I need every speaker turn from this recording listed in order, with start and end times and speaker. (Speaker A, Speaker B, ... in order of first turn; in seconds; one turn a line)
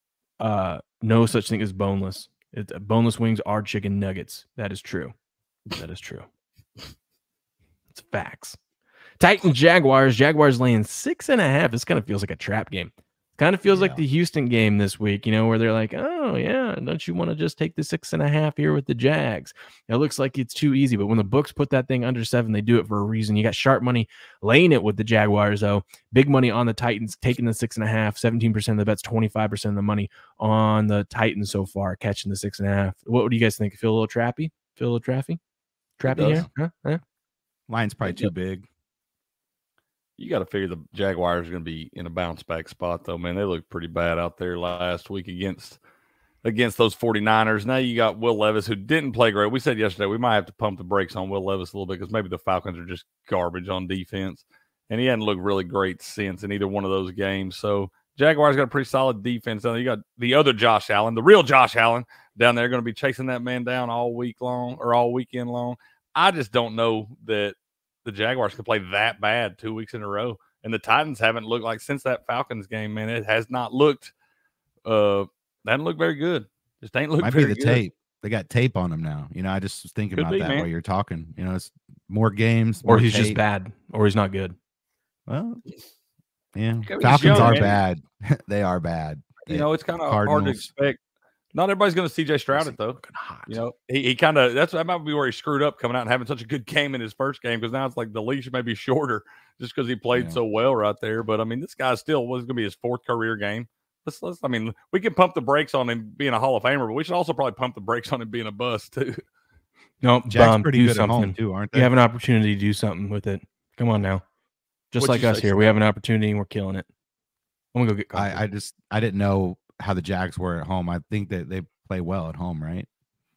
Speaker A: 0.4-5.1
Speaker A: 5.8-6.3
Speaker A: 7.9-8.6
Speaker A: 9.2-35.4
Speaker B: 13.7-14.0
Speaker A: 36.0-37.0
Speaker C: 36.0-36.5
Speaker B: 36.2-36.5
Speaker B: 37.7-38.7
Speaker C: 40.2-45.8
Speaker C: 46.4-74.1
Speaker C: 74.8-77.8
Speaker B: 77.2-83.4
Speaker C: 80.2-80.7
Speaker A: 82.8-84.5
Speaker B: 85.3-85.6
Speaker B: 86.5-90.7
Speaker C: 86.8-87.8
Speaker A: 87.0-87.7
Speaker C: 89.5-91.0
Speaker C: 91.5-109.2
Speaker A: 92.5-93.6
Speaker B: 100.1-100.4
Speaker A: 110.0-114.2
Speaker B: 110.3-111.9
Speaker A: 114.9-116.9
Speaker C: 115.0-115.8
Speaker A: 117.7-118.4
Speaker B: 118.1-122.9